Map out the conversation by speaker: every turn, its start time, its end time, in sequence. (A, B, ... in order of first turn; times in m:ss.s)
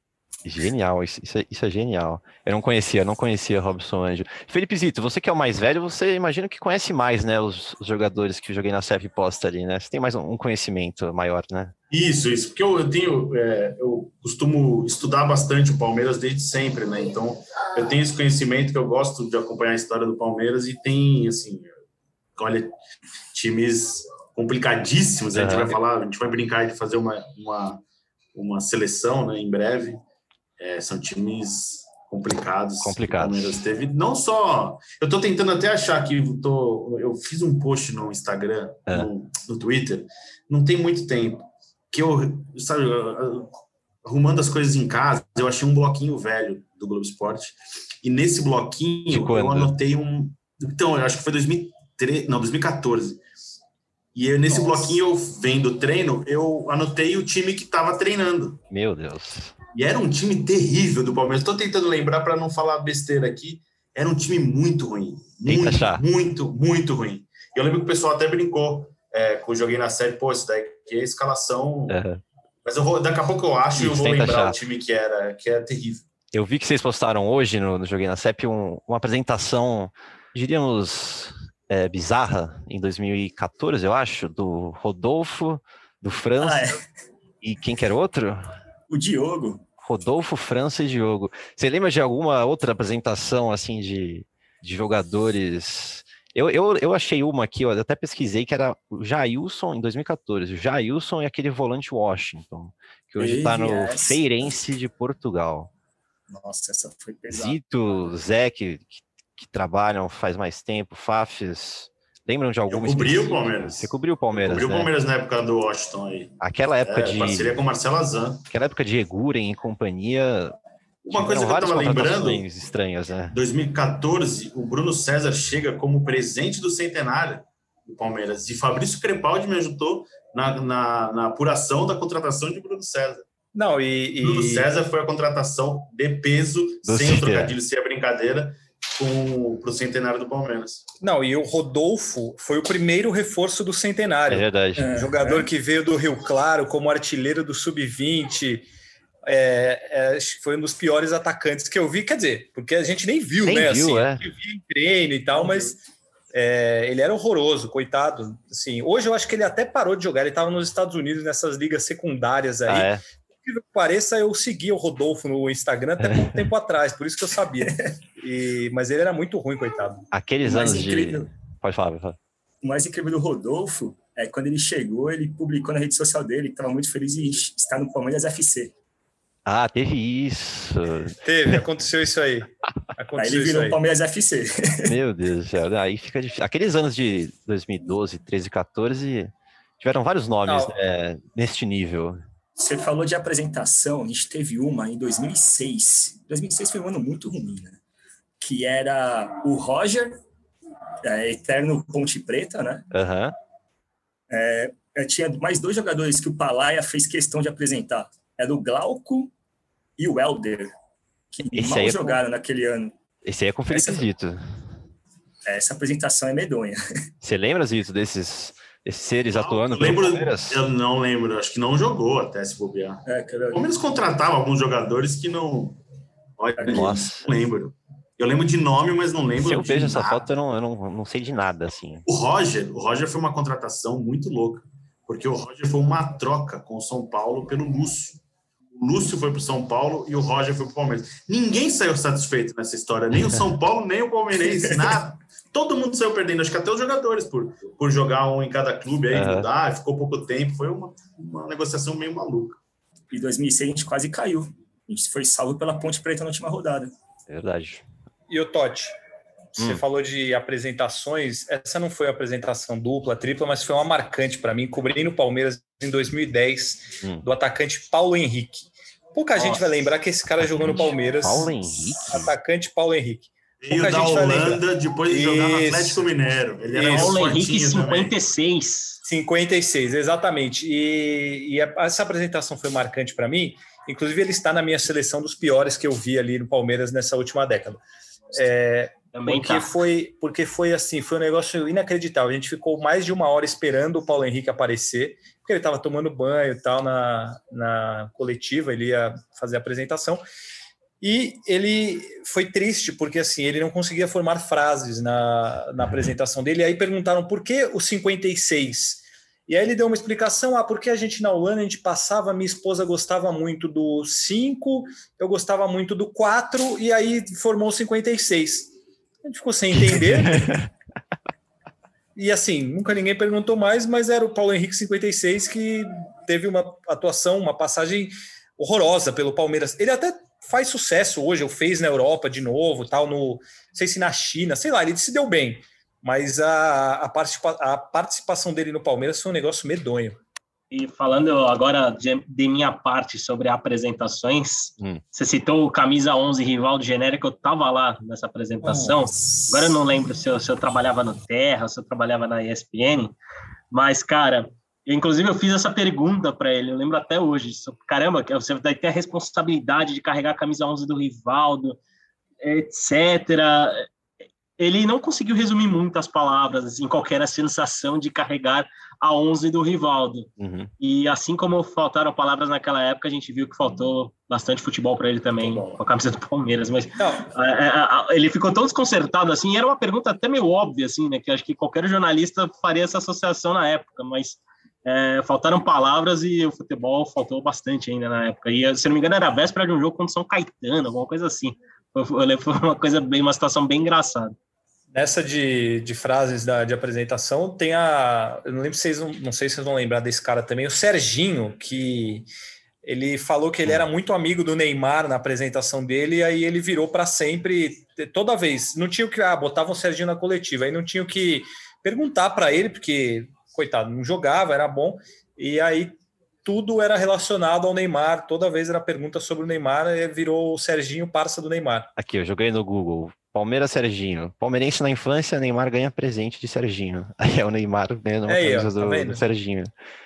0:00.4-0:11.7 A
0:11.9-0:21.7 B
0:22.4-0:22.7 B
0:23.3-0:27.8 B
0:25.3-0:25.8 A
0:28.3-0:30.0 B
0:30.6-0:43.5 B
0:32.8-0:33.6 A
0:44.0-0:53.2 B
0:49.1-0:49.7 A
0:54.1-0:58.6 B
0:54.5-0:54.8 C
0:58.7-0:59.6 A
0:59.7-1:12.0 B
1:05.4-1:06.0 A
1:11.9-1:12.2 A
1:12.6-1:16.0 B
1:13.7-1:14.6 A
1:16.3-1:26.8 A
1:26.4-1:26.8 C
1:27.4-1:28.4 A
1:28.9-1:29.6 C
1:29.8-1:45.7 A
1:43.2-1:44.5 C
1:46.3-1:47.6 C
1:47.3-1:54.9 A
1:52.7-1:58.4 B
1:56.4-1:57.5 A
1:58.5-2:00.6 A
2:01.0-2:02.4 B
2:01.1-2:03.4 A
2:03.3-2:13.2 B
2:13.6-2:14.7 D
2:14.2-2:20.8 B
2:16.8-2:17.6 A
2:21.0-2:28.7 D
2:24.3-2:24.9 A
2:24.8-2:25.5 C
2:29.3-2:35.8 D
2:33.4-2:34.2 A
2:35.4-2:35.7 C
2:36.3-2:42.9 D
2:42.7-2:43.0 A
2:43.4-2:50.0 D
2:46.0-2:46.4 A
2:47.6-2:47.9 C
2:50.1-2:52.2 A
2:50.4-2:51.3 C
2:52.6-2:58.7 C
2:59.4-3:01.6 A
3:01.2-3:03.8 D
3:03.2-3:04.9 C
3:04.8-3:12.2 A
3:10.4-3:10.7 D
3:12.6-3:17.8 C
3:18.4-3:20.2 C
3:21.0-3:22.9 C
3:22.9-3:23.3 A
3:24.3-3:29.3 C
3:30.0-3:30.7 C
3:31.3-3:32.9 C
3:31.5-3:32.2 A
3:33.2-3:34.7 A
3:33.7-3:34.0 C
3:35.4-3:36.8 C
3:37.2-3:40.6 A
3:39.3-3:45.8 B
3:43.1-3:43.6 C
3:46.4-3:50.3 B
3:46.6-3:47.3 A
3:49.4-3:52.0 A
3:52.1-3:58.2 B
3:58.8-4:12.6 B
4:04.5-4:04.9 C
4:09.1-4:09.5 A
4:13.1-4:16.9 C
4:17.3-4:17.8 A
4:18.3-4:18.9 D
4:19.6-4:36.1 D
4:19.6-4:19.8 A
4:30.4-4:32.3 A
4:33.6-4:38.2 B
4:36.7-4:39.0 E
4:39.0-4:47.8 D
4:48.3-5:00.2 D
4:49.1-4:49.7 E
5:01.0-5:18.7 D
5:19.2-5:20.6 D
5:20.3-5:20.6 A
5:22.2-5:40.2 D
5:40.7-5:53.1 E
5:48.6-5:49.7 C
5:53.7-6:01.8 E
6:02.4-6:03.9 E
6:04.6-6:34.3 E
6:10.4-6:10.7 A
6:15.4-6:15.8 C
6:17.0-6:17.3 D
6:34.9-6:42.3 D
6:42.8-7:01.9 D
7:02.0-7:09.7 A
7:08.3-7:09.2 D